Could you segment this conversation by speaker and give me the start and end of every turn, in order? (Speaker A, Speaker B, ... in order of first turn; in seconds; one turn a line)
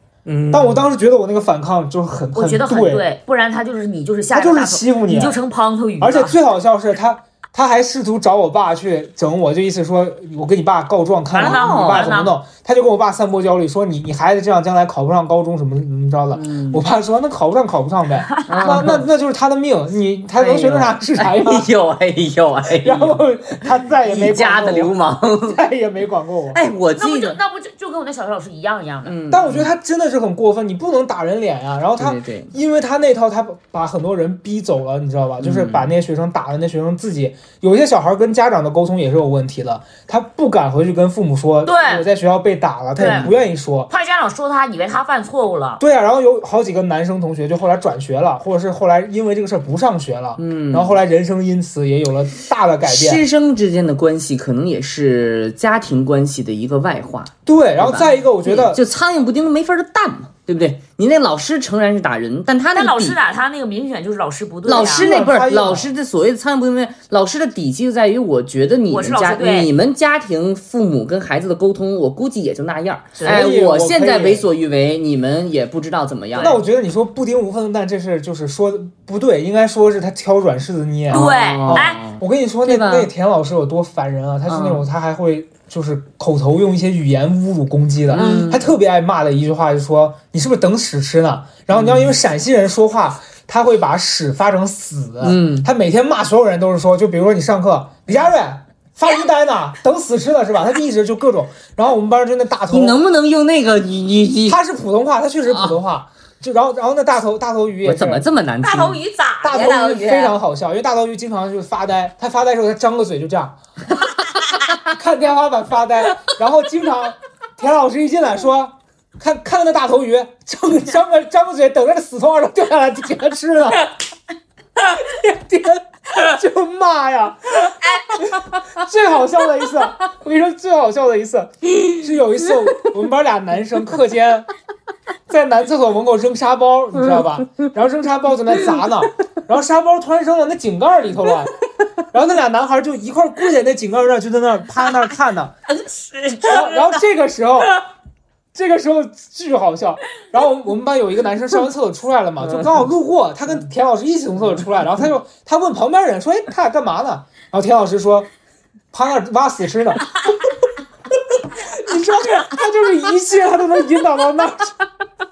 Speaker A: 0.2-0.9
Speaker B: 0.5-3.0
Speaker C: 2.3-6.3
Speaker B: 4.3-5.4
Speaker B: 6.0-21.7
Speaker C: 11.3-12.3
Speaker A: 11.4-12.1
Speaker A: 16.3-16.8
Speaker C: 18.3-18.9
Speaker A: 18.5-19.0
Speaker A: 20.4-25.6
Speaker B: 22.8-26.6
Speaker A: 26.5-27.4
Speaker C: 27.0-29.1
Speaker A: 29.0-29.7
Speaker B: 29.3-43.9
Speaker A: 32.0-32.5
Speaker A: 35.4-35.9
Speaker C: 41.6-42.0
Speaker C: 43.0-43.3
Speaker C: 43.9-45.8
Speaker B: 45.8-53.2
Speaker A: 50.4-51.0
Speaker A: 52.8-63.2
Speaker B: 57.5-58.8
Speaker C: 62.7-65.1
Speaker A: 64.7-76.6
Speaker B: 64.7-65.9
Speaker C: 68.9-69.7
Speaker B: 73.2-74.5
Speaker B: 76.4-103.0
Speaker C: 81.1-82.0
Speaker A: 81.1-83.1
Speaker A: 84.5-84.8
Speaker A: 88.1-88.7
Speaker C: 88.1-88.6
Speaker A: 91.7-92.1
Speaker A: 95.2-95.7
Speaker A: 102.7-104.6
Speaker B: 104.5-108.2
Speaker A: 105.5-105.8
Speaker A: 107.8-109.0
Speaker C: 108.6-110.3
Speaker B: 109.4-113.6
Speaker B: 114.8-123.9
Speaker B: 124.8-134.5
Speaker B: 135.3-141.5
Speaker B: 142.1-145.5
Speaker C: 145.8-146.9
Speaker B: 146.4-147.8
Speaker B: 148.5-158.3
Speaker B: 158.9-160.2
Speaker B: 161.5-164.8